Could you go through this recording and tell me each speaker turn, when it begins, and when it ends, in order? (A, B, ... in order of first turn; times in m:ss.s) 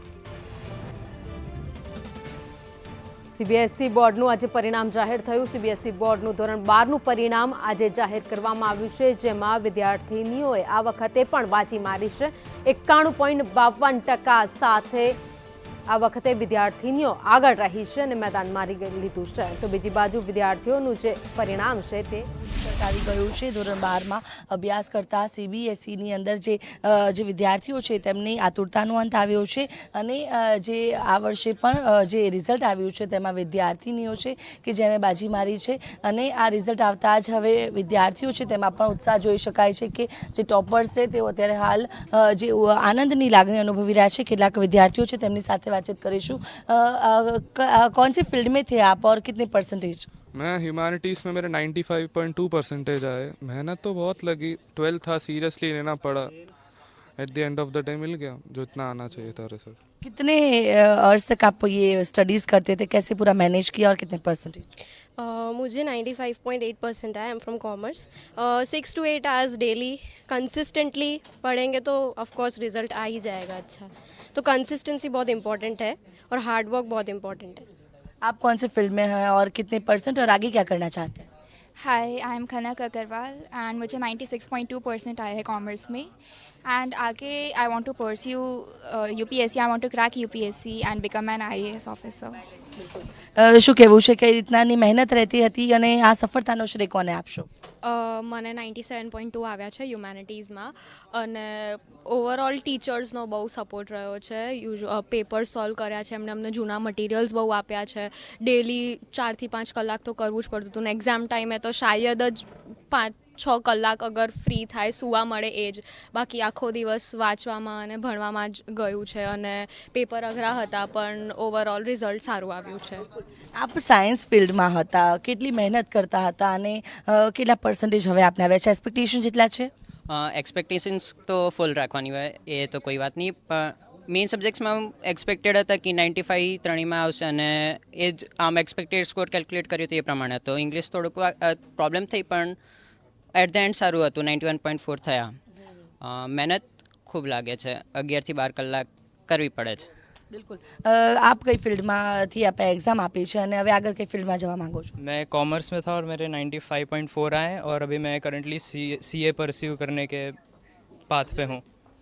0:03.4-0:15.2 A
0:15.9-0:22.3 A
0:22.4-0:50.1 B
0:50.3-0:56.3 C
0:57.2-0:59.8 C
1:00.0-1:04.7 B
1:05.2-1:17.7 D
1:18.2-1:21.3 B
1:21.8-1:26.1 E
1:26.7-1:32.4 E
1:33.4-1:37.5 B
1:37.8-2:03.0 F
2:03.6-2:09.7 B
2:10.1-2:22.6 G
2:23.3-2:25.3 G
2:26.0-2:29.9 G
2:30.3-2:34.9 B
2:35.0-2:40.4 H
2:41.1-2:41.6 H